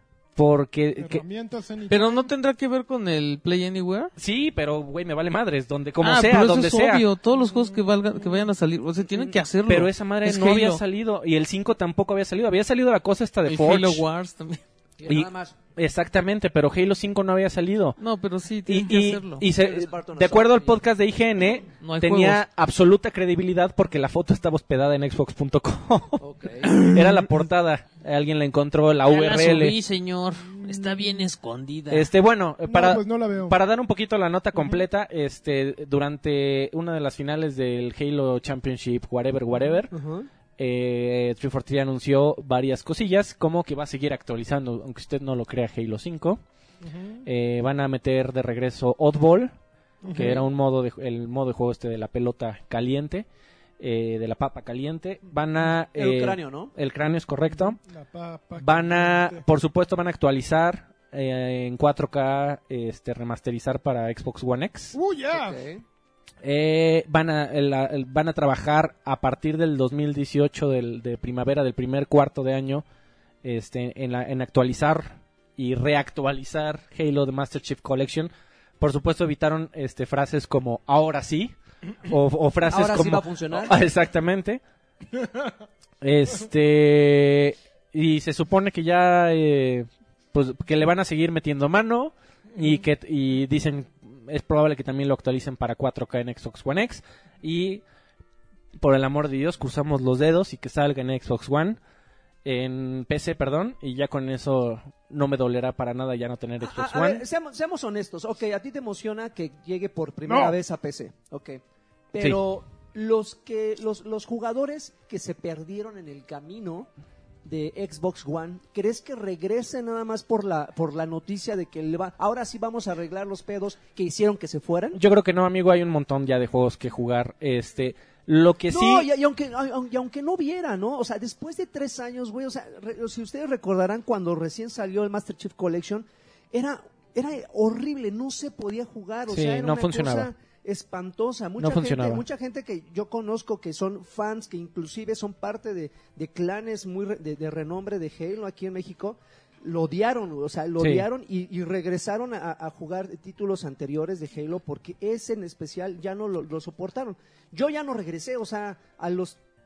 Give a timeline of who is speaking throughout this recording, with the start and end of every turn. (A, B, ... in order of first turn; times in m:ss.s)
0:00.4-0:01.2 A
0:01.0-0:02.3 B
0:01.9-0:04.1 C
0:04.2-0:07.0 A
0:06.0-0:10.8 C
0:07.3-0:08.4 B
0:09.7-0:14.0 A
0:13.4-0:14.6 C
0:15.0-0:15.6 D
0:15.0-0:18.0 A
0:18.0-0:19.4 C
0:18.7-0:29.8 A
0:19.5-0:20.8 D
0:21.8-0:22.4 C
0:26.2-0:26.8 D
0:26.6-0:27.1 C
0:29.0-0:32.1 C
0:31.9-0:39.9 A
0:32.6-0:33.6 B
0:39.9-0:40.3 D
0:40.6-0:46.4 A
0:46.8-0:47.2 B
0:47.2-0:49.5 A
0:50.0-0:50.4 B
0:50.1-0:50.4 D
0:50.1-0:53.3 A
0:53.8-0:57.8 A
0:55.9-0:56.7 D
0:57.5-0:59.4 B
0:58.6-1:04.9 A
1:04.9-1:05.6 B
1:05.3-1:05.8 D
1:06.4-1:12.8 A
1:13.4-1:21.5 A
1:22.0-1:24.6 A
1:22.6-1:23.8 D
1:25.2-1:25.5 B
1:26.0-1:37.8 A
1:38.8-1:41.8 A
1:42.4-1:47.2 A
1:46.6-1:56.9 D
1:50.2-1:50.6 B
1:57.4-2:05.0 D
2:04.9-2:09.1 A
2:08.7-2:39.4 D
2:19.3-2:20.3 A
2:21.6-2:22.2 A
2:30.8-2:31.1 A